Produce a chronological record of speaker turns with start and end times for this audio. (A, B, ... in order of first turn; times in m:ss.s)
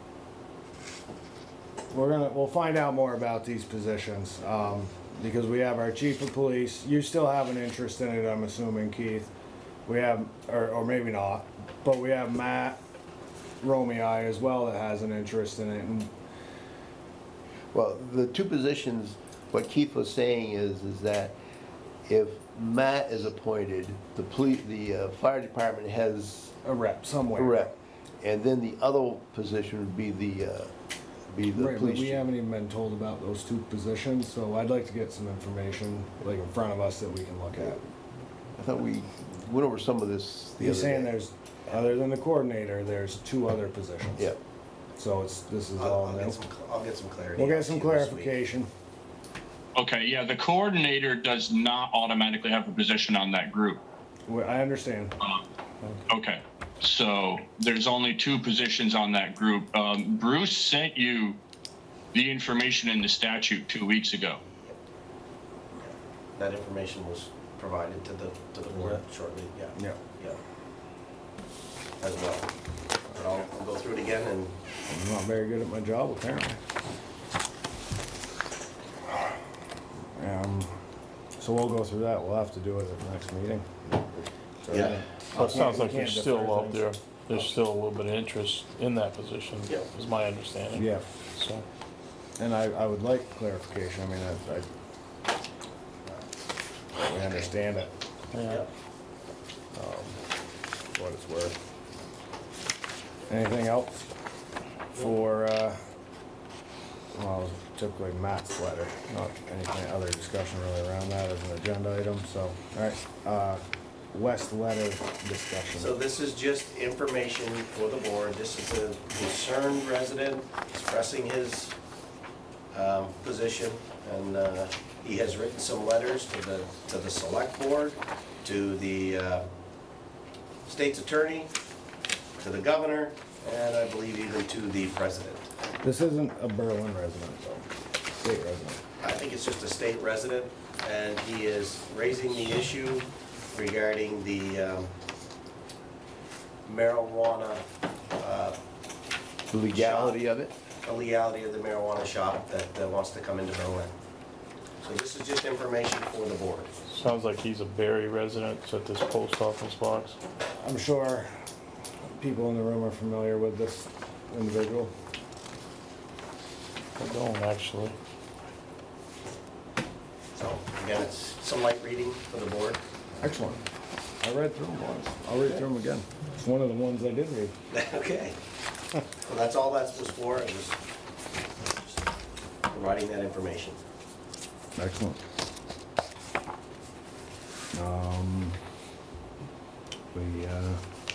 0:01.9-0:09.3 A
0:09.9-0:12.8 A
0:13.6-0:16.1 A
0:17.7-0:21.4 B
0:22.1-0:26.6 B
0:26.6-0:27.7 A
0:27.4-0:30.7 B
0:31.3-0:32.2 B
0:31.5-0:37.8 A
0:38.6-0:41.1 B
0:40.6-0:44.3 A
0:45.0-0:46.4 A
0:45.8-0:48.3 C
0:47.4-0:48.7 A
0:49.8-0:53.8 D
0:54.3-0:55.2 A
0:56.1-1:01.4 D
1:02.1-1:04.4 D
1:05.8-1:10.4 C
1:12.0-1:12.5 C
1:13.1-1:14.6 C
1:14.9-1:16.6 A
1:20.1-1:20.8 A
1:21.4-1:24.1 A
1:24.6-1:27.5 A
1:24.7-1:25.0 C
1:25.3-1:31.6 E
1:30.7-1:31.1 A
1:32.4-1:34.7 A
1:37.0-1:37.9 A
1:38.3-1:38.6 E
1:39.7-1:40.2 A
1:40.9-1:41.6 A
1:43.3-1:44.1 A
1:44.9-1:45.8 A
1:47.1-1:55.9 A
1:55.8-2:01.8 C
2:02.7-2:09.5 C
2:10.7-2:11.5 C
2:12.4-2:15.4 C
2:15.8-2:18.8 A
2:19.0-2:24.9 C
2:26.7-2:28.6 C
2:29.5-2:30.5 B
2:29.7-2:30.2 C
2:30.8-2:33.9 C
2:34.8-2:36.7 C
2:36.9-2:40.2 E
2:40.6-2:41.3 A
2:42.2-2:44.9 A
2:47.0-2:48.0 E
2:50.4-2:52.8 C
2:53.2-2:53.6 A
2:54.2-2:57.5 A
2:57.7-2:58.4 C
2:59.2-3:00.8 C
3:02.7-3:03.8 C
3:04.8-3:05.2 A
3:07.7-3:08.6 A
3:10.1-3:10.8 A